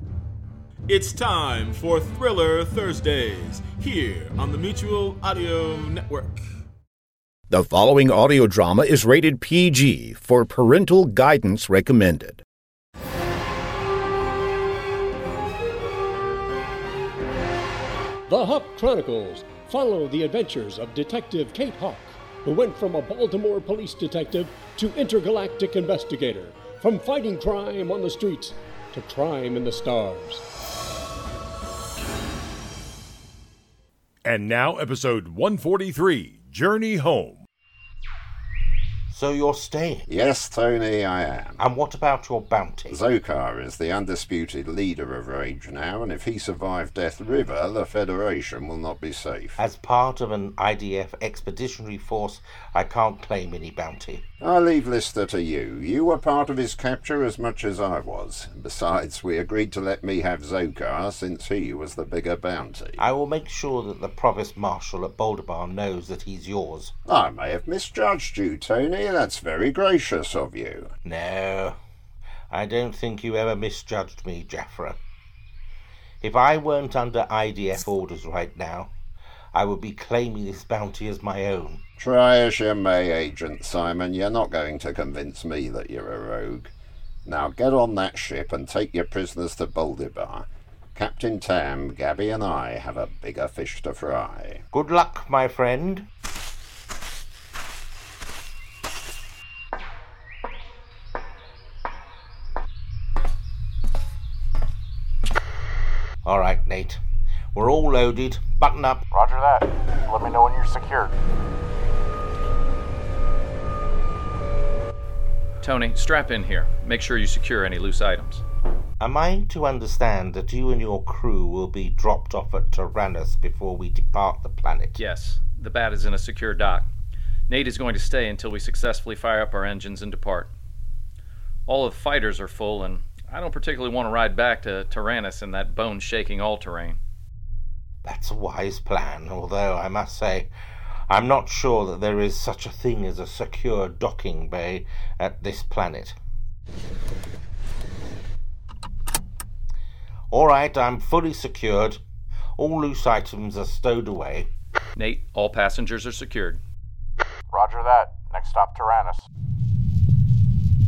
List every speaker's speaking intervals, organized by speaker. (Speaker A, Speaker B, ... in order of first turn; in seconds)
Speaker A: 0.9-6.4
Speaker B: 7.5-12.4
Speaker C: 18.3-30.4
Speaker D: 34.2-37.4
Speaker E: 39.1-40.0, 41.6-43.0, 49.6-54.2, 63.0-67.0, 71.0-71.8, 72.5-75.0, 76.2-78.9, 79.5-81.8, 94.7-96.1, 106.2-107.0, 107.5-109.0, 119.0-125.0, 138.0-140.5, 141.1-146.2, 150.3-152.0, 152.6-154.5
Speaker F: 40.1-41.6, 42.9-49.6, 54.4-63.0, 67.1-70.9, 82.0-86.7, 87.2-94.6
Speaker G: 109.1-111.1, 157.5-159.3
Speaker H: 115.6-118.4, 125.0-126.9, 127.5-130.5, 131.7-137.0, 155.0-156.6